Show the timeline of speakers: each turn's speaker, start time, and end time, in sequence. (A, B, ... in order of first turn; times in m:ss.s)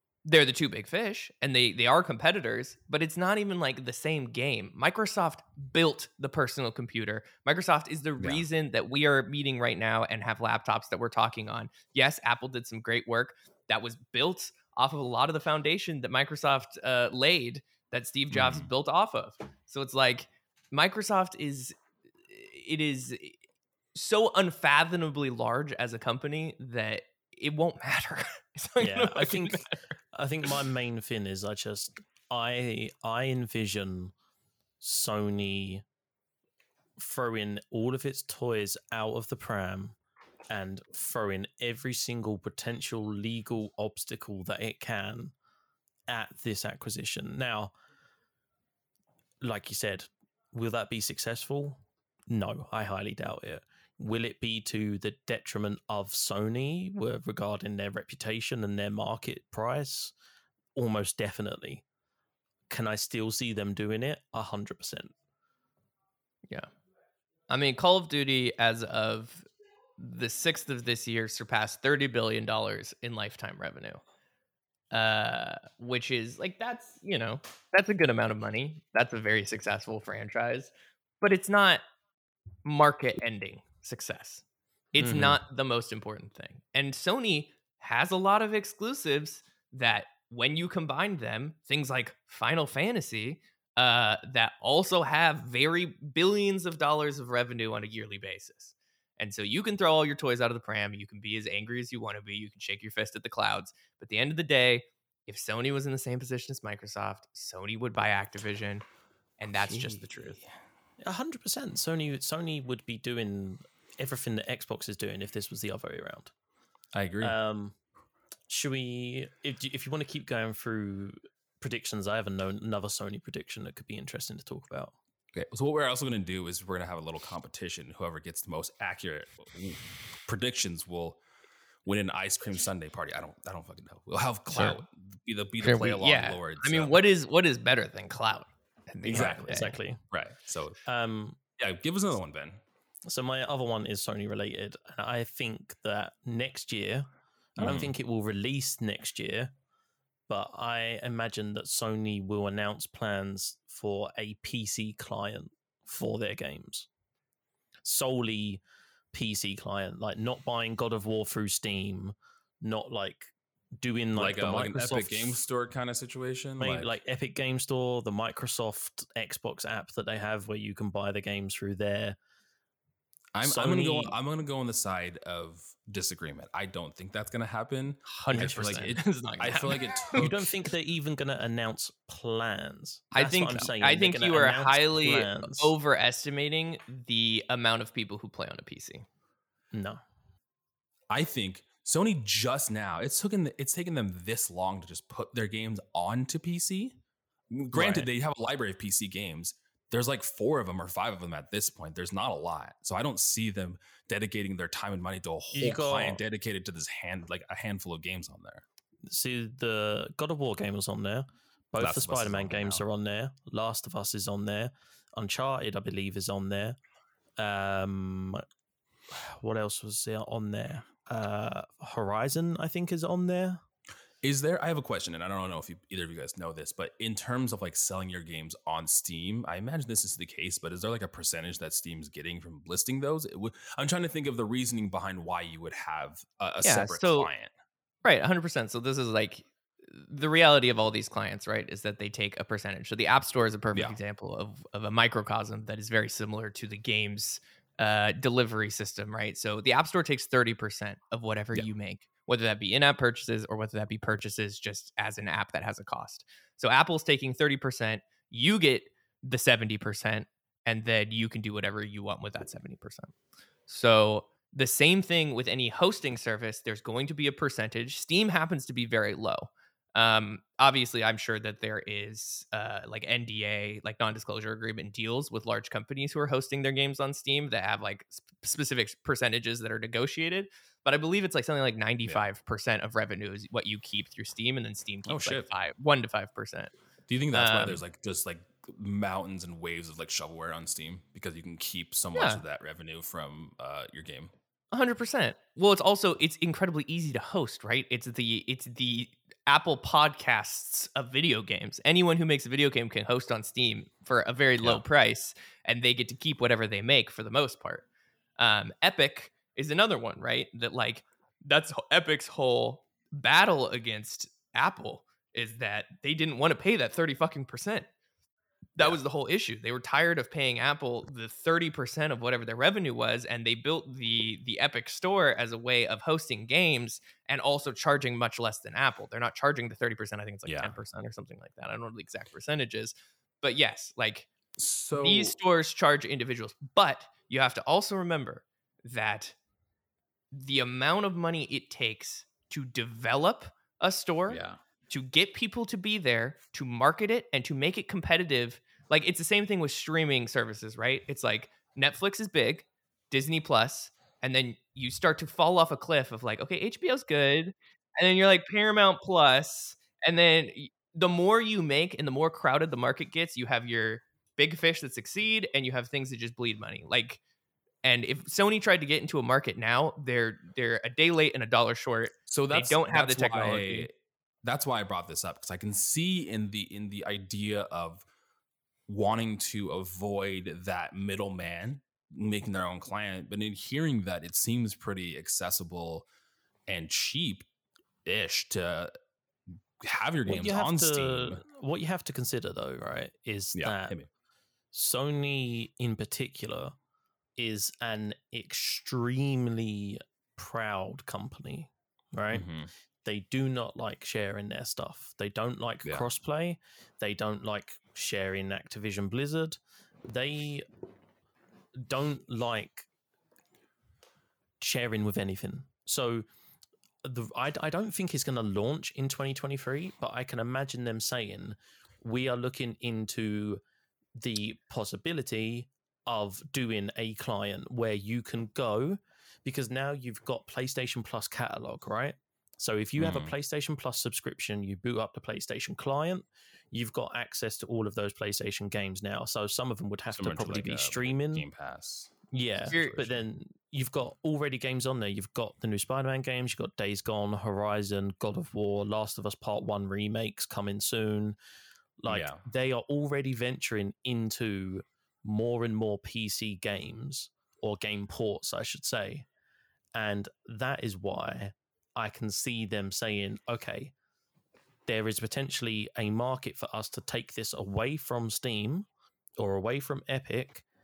0:00.2-0:21.8 A
0:08.2-0:08.4 B
0:18.3-0:18.7 B
0:22.3-0:23.4 A
0:24.0-0:29.8 A
0:28.8-0:34.1 C
0:34.8-0:35.8 C
0:37.0-0:40.0 C
0:40.5-0:45.3 C
0:46.1-0:47.7 C
0:49.4-1:00.1 C
1:00.8-1:01.8 C
1:02.7-1:05.1 C
1:07.5-1:09.4 A
1:10.0-1:14.0 A
1:14.9-1:21.8 A
1:22.6-1:24.4 A
1:24.9-1:48.8 A
1:25.0-1:25.4 C
1:49.4-1:50.4 A
1:49.7-1:50.4 B
1:51.0-1:56.3 C
1:56.9-1:57.4 B
1:57.2-1:57.8 C
1:58.5-2:05.0 C
2:05.3-2:11.2 B
2:11.8-2:17.0 B
2:14.5-2:14.8 A
2:15.6-2:19.8 A
2:19.1-2:20.8 B
2:19.1-2:20.0 C
2:20.8-2:21.4 C
2:21.6-2:22.6 B
2:23.1-2:29.5 C
2:27.6-2:27.9 B
2:30.3-2:36.9 C
2:37.8-2:38.6 C
2:39.1-2:45.4 C
2:44.2-2:47.0 B
2:46.6-2:52.2 C
2:53.3-3:00.4 B
2:53.4-2:54.1 C
2:58.1-3:00.3 A
2:58.3-2:58.6 C
3:00.1-3:05.7 C
3:03.1-3:09.1 A
3:09.7-3:10.0 C
3:11.1-3:17.0 B
3:17.5-3:28.6 B
3:17.7-3:18.1 C
3:25.5-3:26.2 C
3:29.1-3:36.8 C
3:31.8-3:32.8 B
3:37.4-3:38.4 C
3:39.1-3:43.6 C
3:44.2-3:57.5 B
3:56.6-3:57.3 A
3:58.0-4:23.1 A
4:23.7-4:46.7 A
4:45.1-4:45.5 B
4:47.1-4:54.3 B
4:47.3-4:47.8 A
4:52.1-4:52.4 A
4:54.7-5:07.8 A
5:08.4-5:17.9 A
5:18.8-5:34.3 A
5:30.5-5:30.7 B
5:34.6-5:35.4 B
5:35.0-5:39.4 A
5:40.3-6:07.2 A
5:44.3-5:44.6 B
6:07.8-6:13.9 A
6:12.3-6:13.9 B
6:14.4-6:18.0 B
6:18.9-6:26.1 B
6:26.7-6:27.5 B
6:28.0-6:28.9 B
6:29.8-6:31.4 B
6:30.3-6:34.0 C
6:33.6-6:34.1 B
6:34.7-6:36.8 C
6:37.4-6:42.5 C
6:42.3-6:42.7 B
6:43.0-6:50.6 C
6:51.8-6:52.9 C
6:54.6-6:56.2 C
6:57.0-7:03.6 C
7:04.1-7:21.5 C
7:13.0-7:13.3 B
7:20.1-7:22.2 B
7:22.3-7:31.4 C
7:22.7-7:23.1 A
7:32.0-7:39.3 C
7:32.1-7:32.4 B
7:40.0-7:43.9 C
7:44.9-7:48.9 C
7:49.4-7:50.6 C